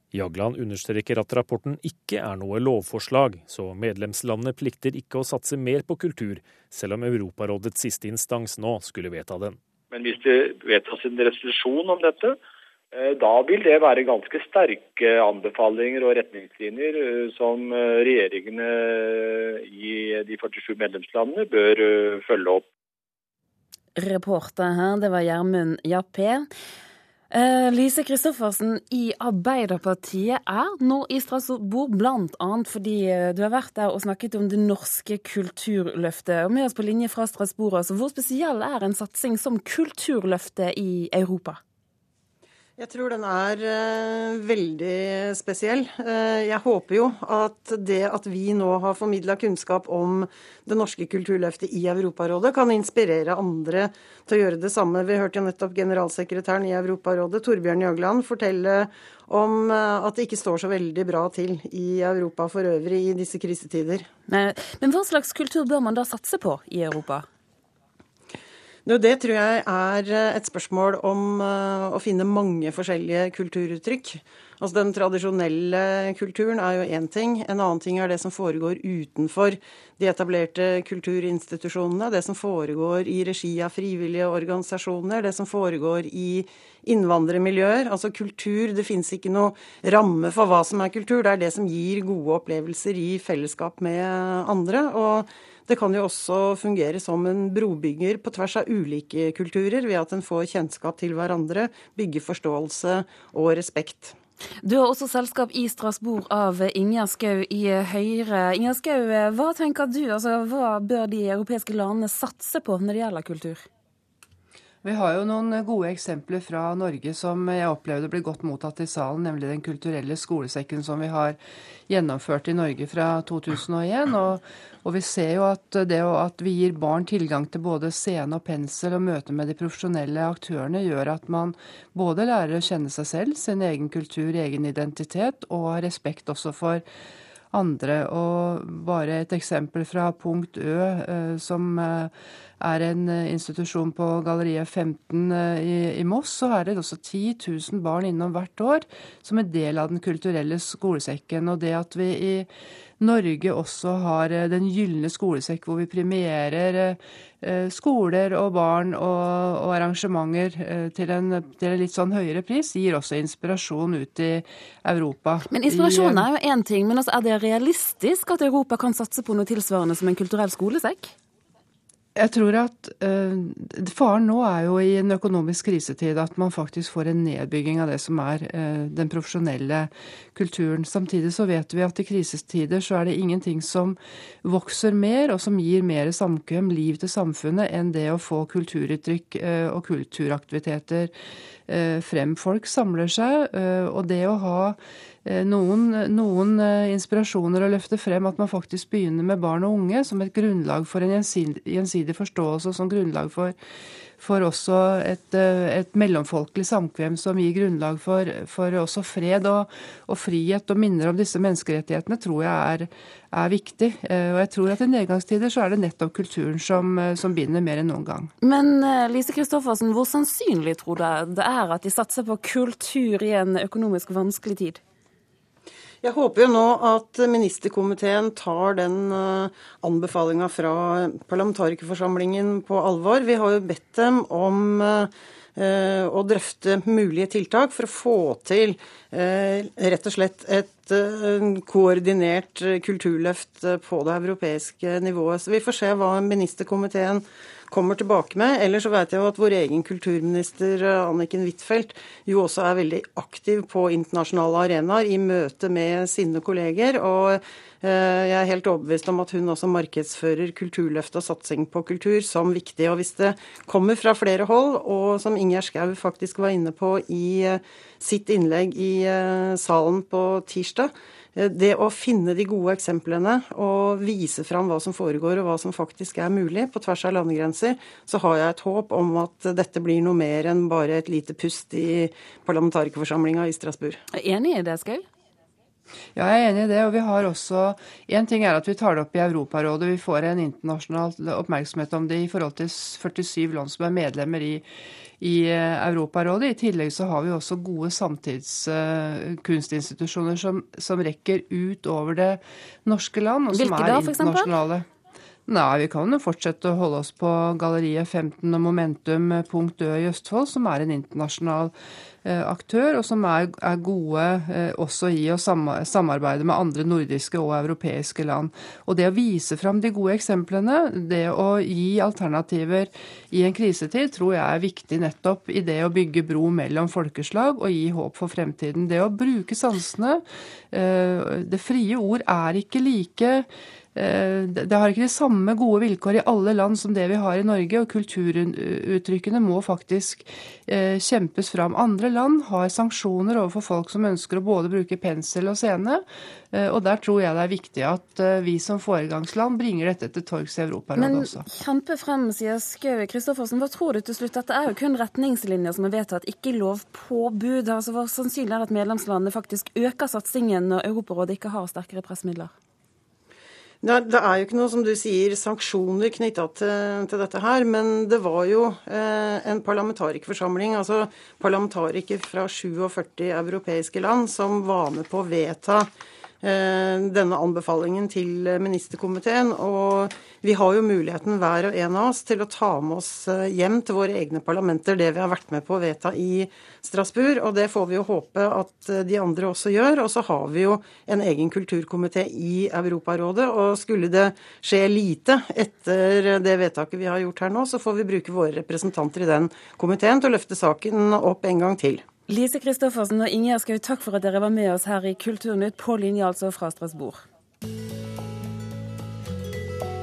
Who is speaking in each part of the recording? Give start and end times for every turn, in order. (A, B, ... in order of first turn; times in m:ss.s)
0:00.1-0:09.6 A
0:09.9-0:12.4 B
0:12.9-0:22.6 B
0:24.0-0:26.5 C
0:27.3-0:41.6 C
0:42.8-1:04.0 D
1:04.3-1:07.2 C
1:08.8-1:44.1 D
1:44.6-1:53.6 C
1:54.8-2:01.4 E
2:01.9-2:16.8 E
2:17.5-2:32.5 E
2:33.0-2:46.3 E
2:45.5-2:51.1 C
2:52.2-3:11.1 E
3:11.7-3:23.5 E
3:24.2-3:38.3 E
3:38.4-3:44.8 C
3:46.0-4:44.0 D
4:44.1-4:45.0 C
4:46.2-4:54.6 E
4:55.2-5:04.8 E
5:03.5-5:04.5 C
5:05.5-5:11.7 E
5:12.2-5:51.4 E
5:51.0-6:02.5 C
6:03.8-6:15.9 D
6:16.4-6:42.0 D
6:42.3-6:47.2 C